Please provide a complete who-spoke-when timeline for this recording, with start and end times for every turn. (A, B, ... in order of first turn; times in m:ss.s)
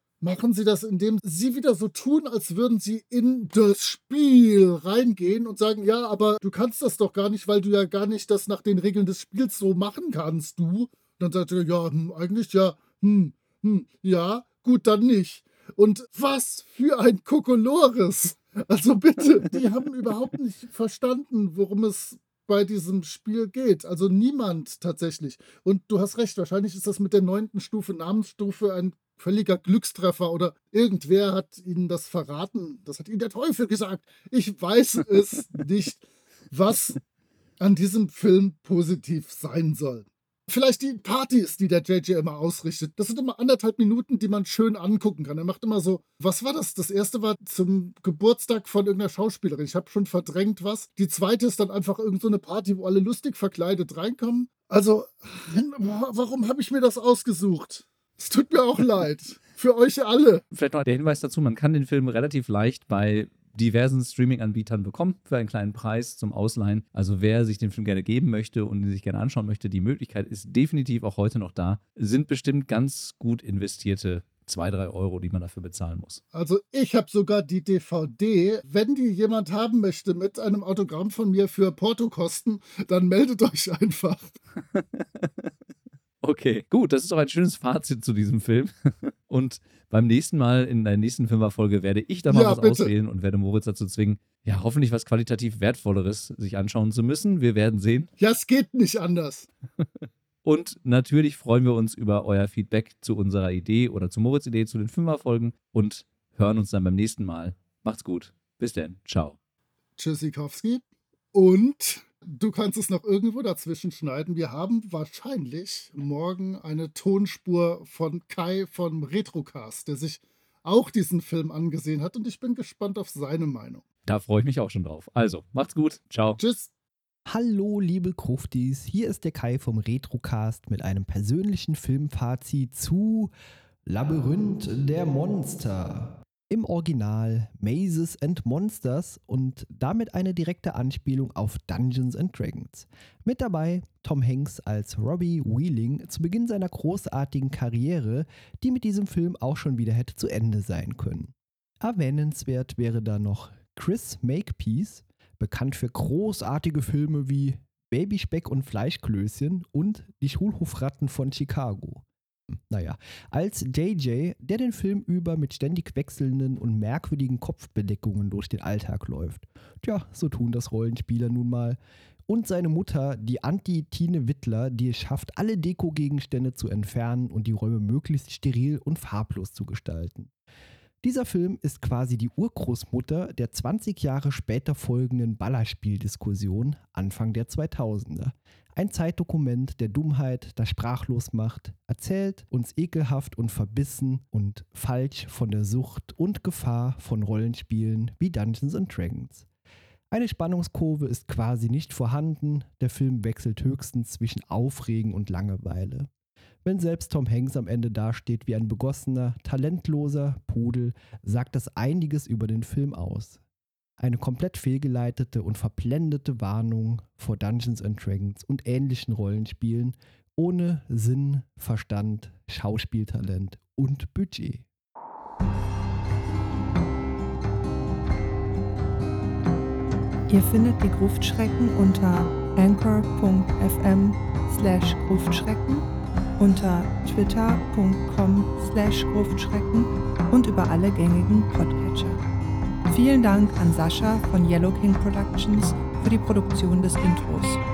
0:00.2-0:37.0 A
0:37.6-1:00.4 A
1:00.5-1:16.2 B
1:16.3-1:24.4 A
1:24.7-1:25.5 B
1:26.2-1:38.1 B
1:32.3-1:32.9 A
1:38.2-1:39.5 A
1:40.4-1:49.4 B
1:50.0-2:03.8 A
2:04.1-2:06.4 B
2:06.4-2:06.7 A
2:07.3-2:13.3 C
2:13.9-2:42.0 C
2:42.7-3:00.3 C
3:01.0-3:19.5 C
3:20.1-3:26.1 C
3:26.6-3:33.4 C
3:34.0-3:44.7 C
3:50.3-3:55.9 D
3:56.4-4:02.2 D
4:02.9-4:07.6 D